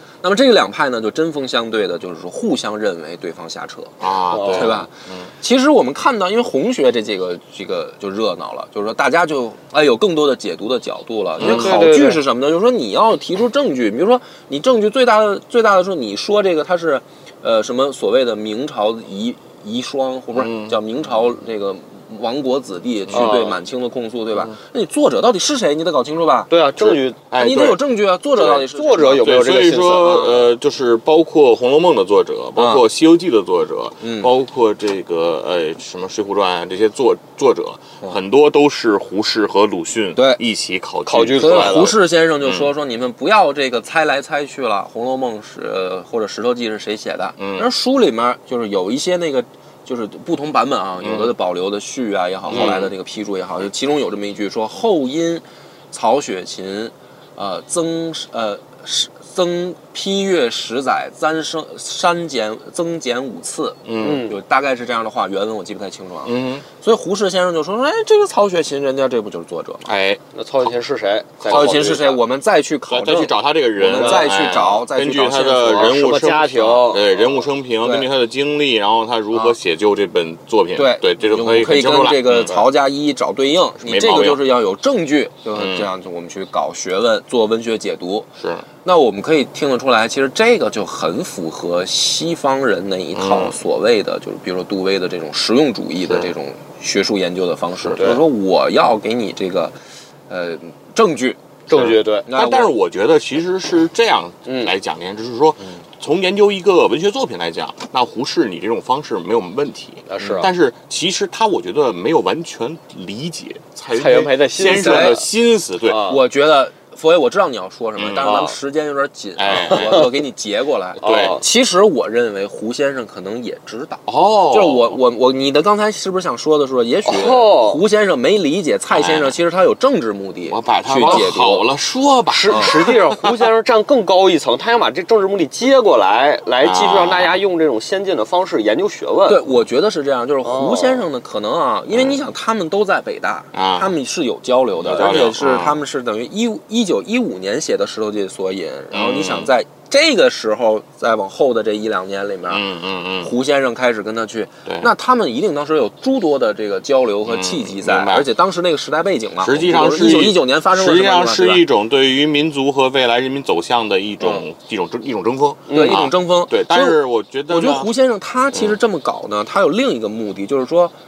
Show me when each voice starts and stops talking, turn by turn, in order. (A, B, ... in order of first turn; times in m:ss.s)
0:00.2-0:26.5 A
0:04.0-0:05.3 B
0:04.3-0:04.8 C
0:11.4-0:11.9 B
0:11.4-0:12.2 C
0:20.4-0:20.8 B
0:23.1-0:23.5 B
0:23.1-0:23.6 C
0:26.5-0:27.2 C
0:26.8-0:27.8 B
0:27.3-0:29.4 A
0:28.4-0:30.5 C
0:29.2-0:42.7 B
0:32.6-0:32.8 A
0:34.0-0:34.3 A
0:40.2-0:40.4 A
0:41.1-0:42.0 C
0:41.4-1:09.9 A
0:47.4-0:47.7 B
0:51.0-0:51.3 B
0:52.5-0:52.9 B
1:03.8-1:04.2 B
1:04.0-1:04.3 C
1:06.2-1:06.6 B
1:09.8-1:10.7 B
1:10.3-1:12.2 C
1:11.4-1:12.0 B
1:11.5-1:16.1 A
1:12.9-1:22.6 B
1:13.9-1:14.3 C
1:15.8-1:17.4 C
1:17.8-1:18.1 A
1:20.8-1:28.3 A
1:23.8-1:24.4 B
1:25.5-1:25.9 B
1:28.4-1:28.7 B
1:28.8-1:39.8 A
1:33.1-1:33.6 B
1:38.0-1:38.2 C
1:40.3-1:42.7 A
1:41.7-1:42.3 C
1:41.7-1:56.1 B
1:44.5-1:44.7 C
1:50.1-1:50.5 C
1:50.2-1:50.4 A
1:53.9-1:55.2 C
1:54.6-1:55.2 A
1:55.8-1:56.2 C
1:56.0-2:11.7 A
1:58.0-1:58.3 B
1:58.2-1:58.6 C
1:59.4-2:00.1 B
1:59.7-2:00.1 C
2:01.0-2:01.4 B
2:01.0-2:01.4 C
2:04.1-2:05.0 B
2:07.0-2:07.8 C
2:08.9-2:09.4 B
2:10.5-2:13.5 B
2:12.3-2:19.4 C
2:16.6-2:17.4 B
2:19.3-2:32.6 A
2:20.4-2:21.1 C
2:21.9-2:22.2 B
2:23.5-2:23.9 B
2:24.8-2:25.8 B
2:28.9-2:29.5 B
2:32.5-2:33.3 B
2:33.2-2:41.6 A
2:37.2-2:38.3 B
2:39.4-2:47.9 B
2:45.7-2:46.0 C
2:45.7-2:50.9 A